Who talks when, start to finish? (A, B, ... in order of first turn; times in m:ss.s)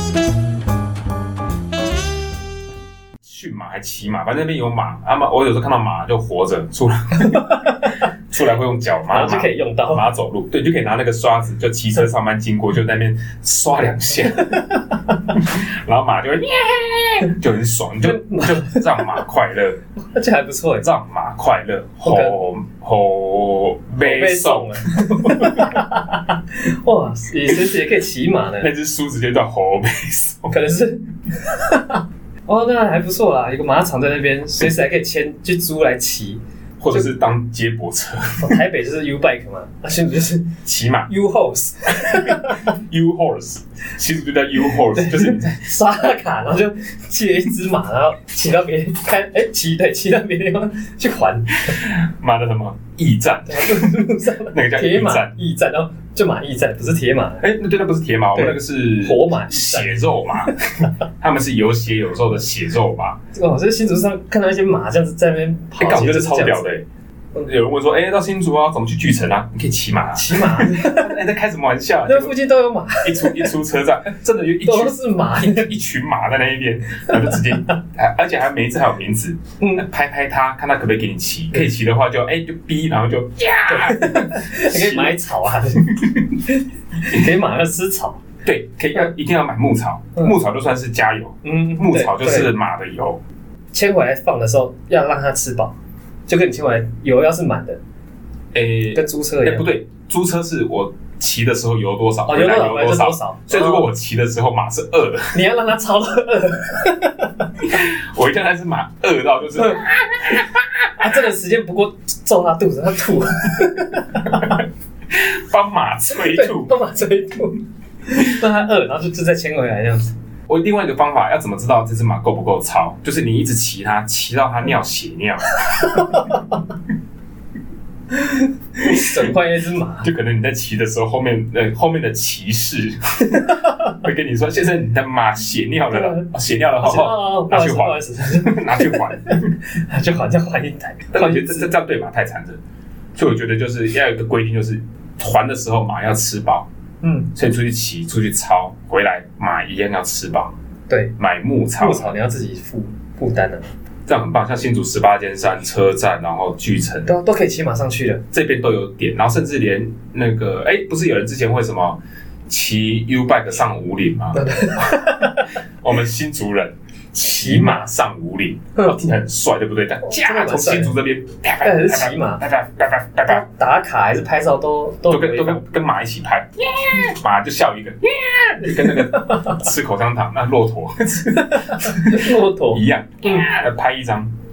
0:03.2-0:14.6 A
0:07.2-0:08.0 B
0:09.1-0:10.0 B
0:14.5-0:14.8 B
0:15.3-0:19.8 A
0:18.0-0:19.2 B
0:20.1-0:20.8 B
0:20.8-0:25.8 A
0:22.0-0:22.4 B
0:24.0-0:28.7 B
0:28.6-0:30.6 A
0:30.5-0:36.4 B
0:36.8-0:38.5 A
0:38.4-0:40.6 B
0:40.6-0:41.1 A
0:41.1-0:42.7 B
0:42.1-0:45.7 A
0:44.7-0:51.6 B
0:51.6-0:55.3 A
0:53.5-0:57.4 B
0:57.4-1:00.5 A
0:58.3-1:00.9 B
1:01.2-1:03.2 A
1:03.3-1:06.7 B
1:05.8-1:06.8 A
1:07.4-1:12.3 A
1:10.1-1:11.1 B
1:12.0-1:13.5 B
1:13.0-1:25.2 A
1:14.6-1:15.7 B
1:17.1-1:17.5 B
1:23.7-1:28.2 B
1:28.4-1:33.2 A
1:31.4-1:32.5 B
1:33.7-1:35.8 B
1:36.3-1:37.8 B
1:38.5-1:45.3 A
1:38.9-1:39.7 B
1:42.2-1:43.9 B
1:45.3-1:47.4 B
1:47.6-1:50.6 A
1:51.0-1:54.6 B
1:55.1-1:56.8 A
1:56.1-2:00.1 B
2:00.5-2:06.2 A
2:05.9-2:06.4 B
2:08.1-2:10.1 B
2:08.8-2:09.1 A
2:10.0-2:19.6 A
2:13.4-2:13.7 B
2:15.9-2:16.2 B
2:16.8-2:21.7 B
2:21.1-2:22.6 A
2:23.2-2:26.7 A
2:27.0-2:27.3 B
2:27.3-2:30.5 A
2:31.2-2:32.1 A
2:31.8-2:33.6 B
2:34.1-2:37.1 A
2:37.0-2:38.2 B
2:38.3-2:44.4 A
2:44.3-2:45.5 B
2:45.8-2:53.4 A
2:47.2-2:47.9 B
2:50.0-2:51.0 B
2:51.6-2:52.4 B
2:53.2-2:55.6 B
2:55.1-3:04.3 A
2:58.8-2:59.4 B
3:01.5-3:03.4 B